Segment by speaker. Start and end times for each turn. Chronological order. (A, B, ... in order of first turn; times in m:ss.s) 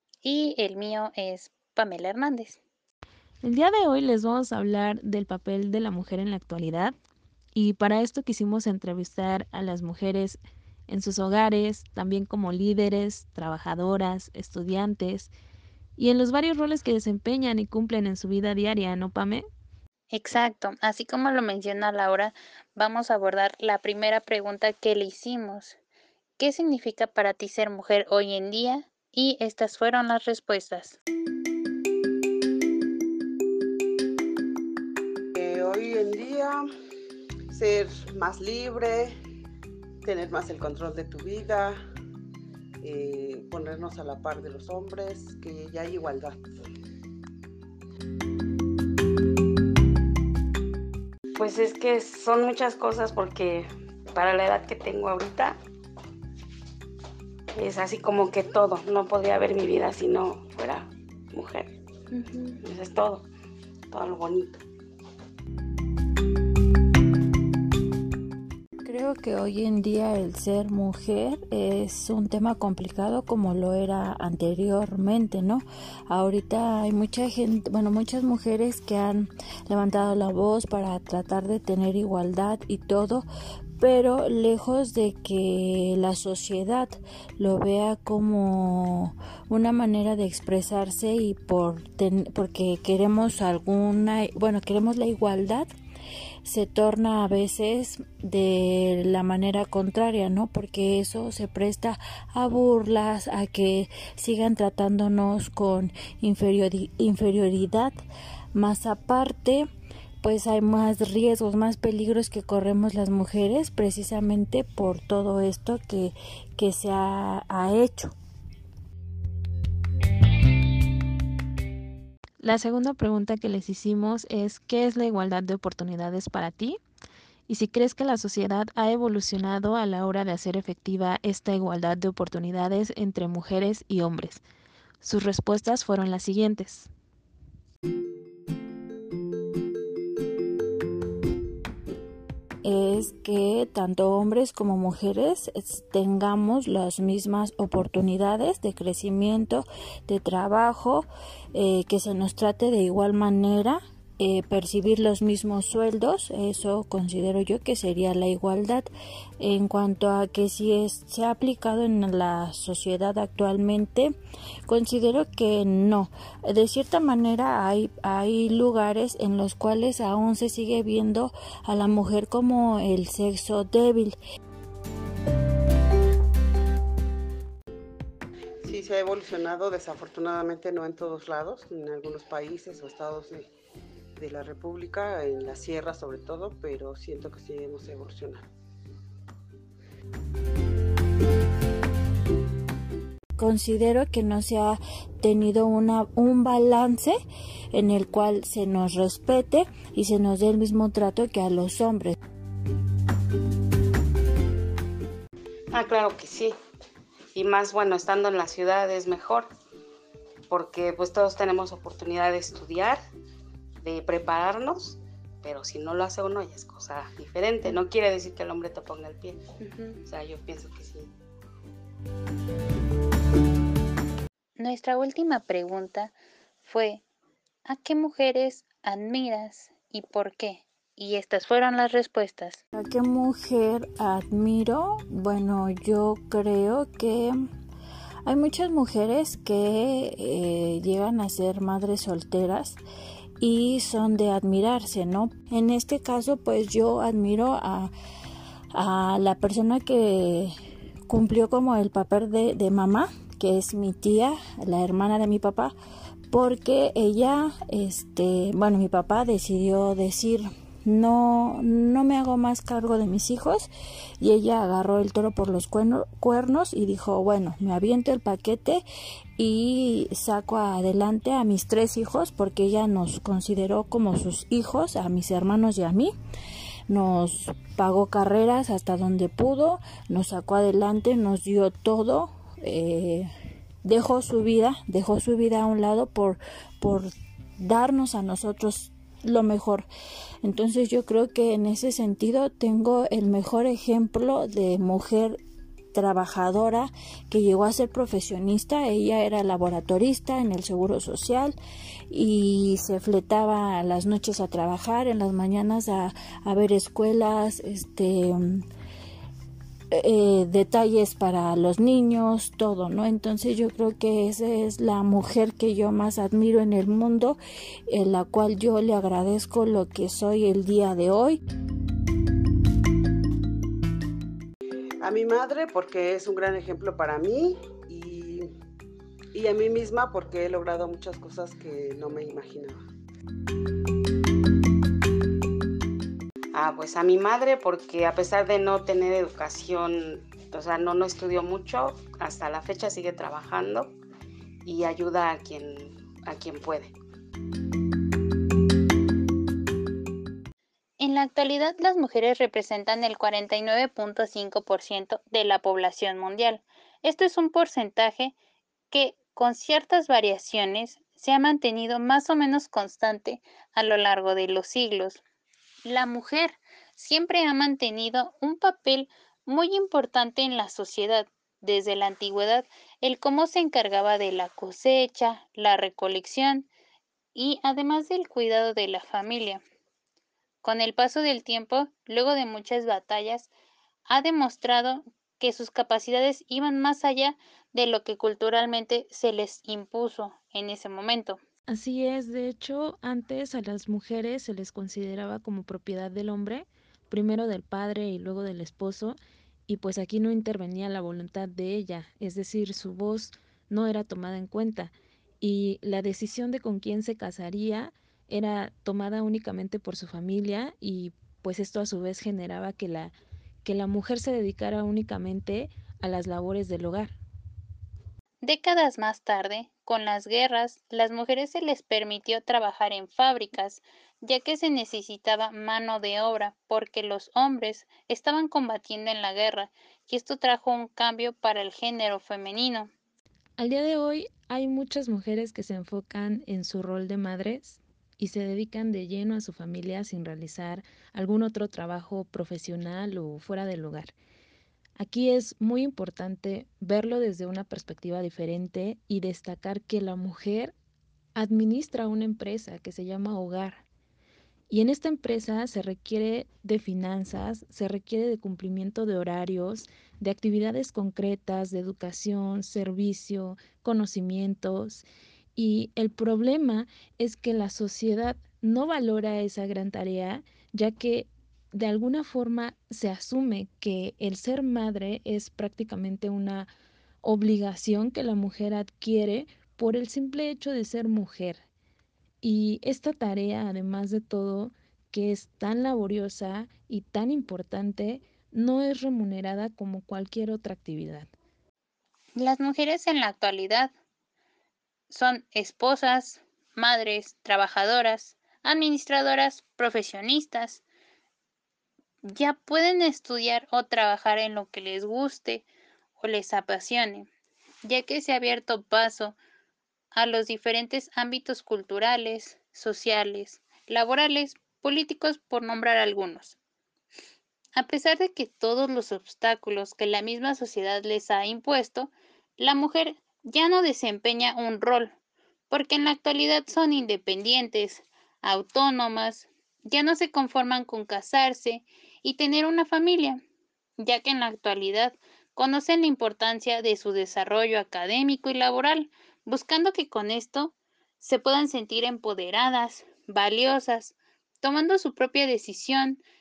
0:00.2-0:02.6 A
0:03.4-0:06.9 B
0:07.5-0:15.3 B
0:16.0-0:19.4 B
0:20.1-0:25.8 A
0:26.4-0:31.0 A
0:35.4-0:36.6 C
0:37.5-0:39.1 C
0:40.0-0:41.8 C
0:42.8-0:46.4 C
0:51.4-0:55.6 D
0:57.6-1:01.7 D
1:02.1-1:02.6 A
1:02.6-1:03.3 D
1:03.9-1:04.6 D
1:08.8-1:23.3 E
1:23.8-1:35.7 E
1:36.4-1:48.0 E
1:48.5-1:49.7 E
1:50.2-1:58.2 E
2:02.7-2:06.7 B
2:07.5-2:13.3 B
2:22.6-2:44.1 E
2:44.7-2:54.2 E
2:58.6-3:03.5 C
3:04.2-3:08.5 C
3:13.4-3:17.2 E
3:17.7-3:22.1 E
3:25.7-3:26.6 D
3:27.3-3:29.5 D
3:30.5-3:33.0 D
3:33.8-3:39.4 D
3:39.6-3:40.0 A
3:40.0-3:41.1 D
3:44.6-3:46.1 A
3:46.6-3:47.0 A
3:47.7-3:52.6 A
3:52.7-3:57.4 E
3:58.2-4:02.8 E
4:03.4-4:07.9 E
4:08.7-4:10.5 E
4:11.1-4:15.8 E
4:16.3-4:28.8 E
4:29.4-4:36.1 E
4:36.9-4:43.3 E
4:43.8-4:49.9 E
4:50.4-4:55.4 E
4:55.9-5:01.6 E
5:02.1-5:08.6 E
5:09.9-5:17.4 E
5:17.9-5:21.4 E
5:25.0-5:28.5 C
5:29.3-5:32.8 C
5:36.5-5:44.0 D
5:44.6-5:46.9 D
5:51.0-5:58.4 A
5:58.9-6:05.2 A
6:05.8-6:16.7 A
6:17.4-6:19.6 A
6:20.6-6:23.5 A
6:24.1-6:31.4 A
6:31.7-6:38.8 B
6:40.0-6:41.5 B
6:42.6-6:43.0 B
6:43.7-6:44.8 B
6:45.4-6:46.5 B
6:49.3-6:53.0 B
6:54.6-6:57.2 B
6:58.4-7:12.9 A
7:17.7-7:18.4 B
7:19.2-7:20.4 B
7:21.1-7:21.4 B
7:25.7-7:26.3 B
7:28.4-7:29.3 B
7:31.4-7:33.8 B
7:34.7-7:38.0 B
7:38.7-7:40.8 B
7:41.4-7:44.8 B
7:45.6-7:56.7 B
7:57.2-8:00.0 B
8:02.4-8:04.7 B
8:03.3-8:03.9 C
8:05.2-8:06.9 B
8:06.4-8:07.7 C
8:07.9-8:08.8 B
8:09.6-8:11.2 B
8:12.4-8:13.9 A
8:15.1-8:20.8 A
8:22.2-8:25.6 A
8:26.2-8:27.3 A
8:27.8-8:29.4 A
8:30.1-8:36.6 A
8:37.8-8:45.1 A
8:45.7-8:53.4 A
8:54.0-9:06.2 A